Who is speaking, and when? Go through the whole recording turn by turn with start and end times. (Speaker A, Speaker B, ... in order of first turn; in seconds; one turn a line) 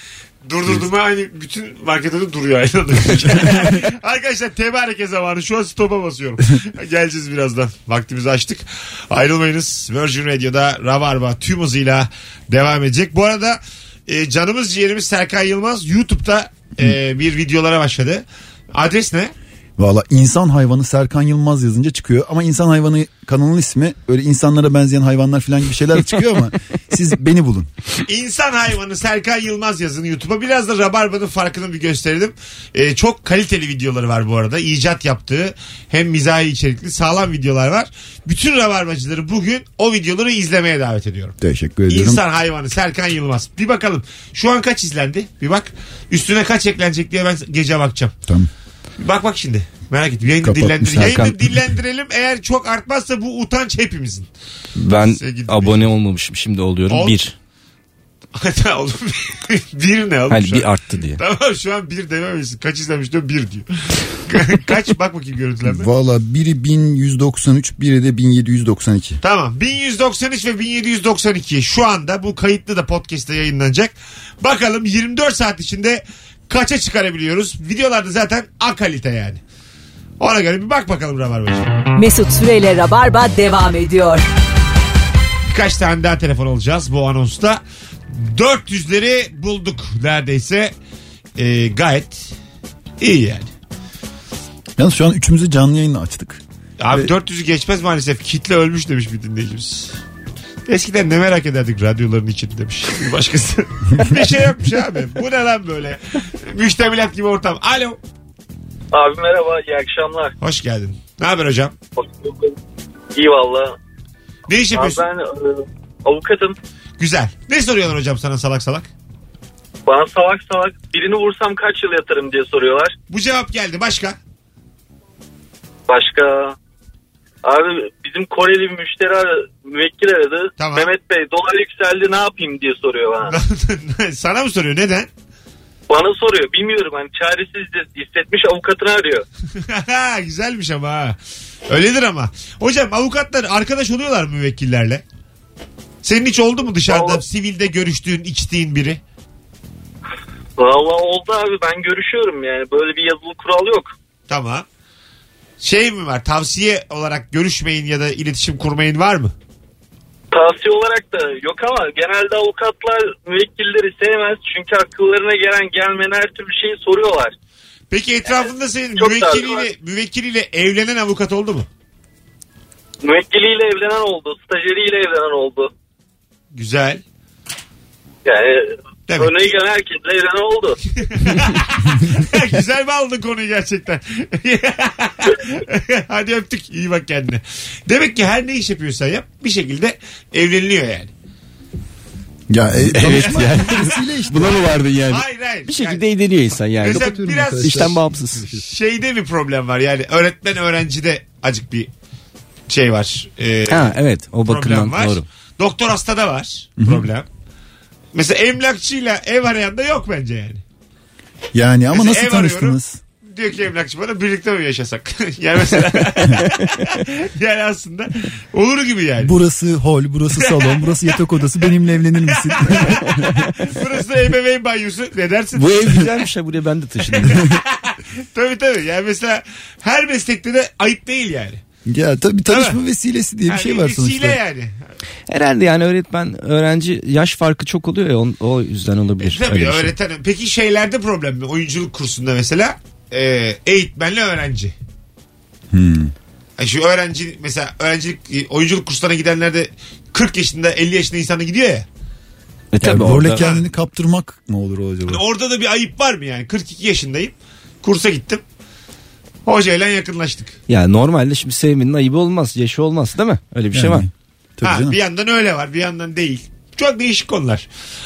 Speaker A: 0.5-19.3
Speaker B: 19.8-27.7
Speaker A: 28.1-41.4
Speaker B: 41.4-42.2
Speaker A: 41.9-48.1
Speaker A: 49.0-54.3
Speaker B: 50.4-51.3
Speaker C: 51.0-51.4
Speaker C: 54.8-57.4
Speaker A: 55.2-55.9
Speaker A: 56.9-57.2
Speaker A: 58.4-65.9
Speaker C: 60.3-61.2
Speaker B: 65.7-69.2
Speaker A: 69.2-79.4
Speaker A: 80.2-81.7
Speaker D: 82.0-84.2
Speaker A: 85.5-90.7
Speaker A: 91.4-92.3
Speaker A: 93.0-93.5
Speaker B: 94.8-96.4
Speaker A: 96.8-100.0
Speaker A: 100.7-108.0
Speaker E: 108.9-110.3
Speaker A: 110.4-111.8
Speaker E: 112.0-112.5
Speaker E: 113.2-113.8
Speaker A: 114.5-115.0
Speaker E: 114.7-116.6
Speaker A: 117.0-118.9
Speaker E: 119.9-123.0
Speaker A: 123.1-124.2
Speaker E: 125.9-126.6
Speaker E: 127.4-133.4
Speaker A: 130.6-130.9
Speaker A: 133.3-135.1
Speaker E: 135.9-139.2
Speaker A: 139.6-145.0
Speaker A: 146.0-149.0
Speaker E: 146.9-147.2
Speaker E: 150.6-153.9
Speaker A: 154.3-154.7
Speaker A: 155.6-159.3
Speaker E: 160.3-167.3
Speaker A: 167.9-171.7
Speaker E: 168.3-169.7
Speaker E: 173.0-175.7
Speaker A: 176.5-177.0
Speaker E: 178.2-180.8
Speaker A: 181.1-191.1
Speaker B: 192.5-194.8
Speaker C: 192.8-198.5
Speaker A: 193.2-193.8
Speaker A: 195.1-198.0
Speaker B: 196.8-198.6
Speaker A: 198.5-201.9
Speaker A: 202.7-207.3
Speaker C: 203.7-205.2
Speaker B: 206.8-207.1
Speaker A: 208.1-210.6
Speaker B: 211.5-213.0
Speaker A: 211.9-219.3
Speaker B: 219.2-223.5
Speaker A: 220.4-226.3
Speaker C: 225.6-227.4
Speaker A: 227.1-231.6
Speaker B: 231.9-234.4
Speaker A: 232.5-232.8
Speaker A: 233.5-234.9
Speaker C: 235.3-239.9
Speaker A: 239.2-244.8
Speaker B: 245.7-246.1
Speaker A: 246.6-251.9
Speaker C: 252.7-253.4
Speaker B: 252.8-255.2
Speaker A: 253.4-253.6
Speaker A: 255.1-258.4
Speaker A: 259.5-260.6
Speaker C: 260.7-264.1
Speaker B: 263.7-265.0
Speaker A: 264.6-267.7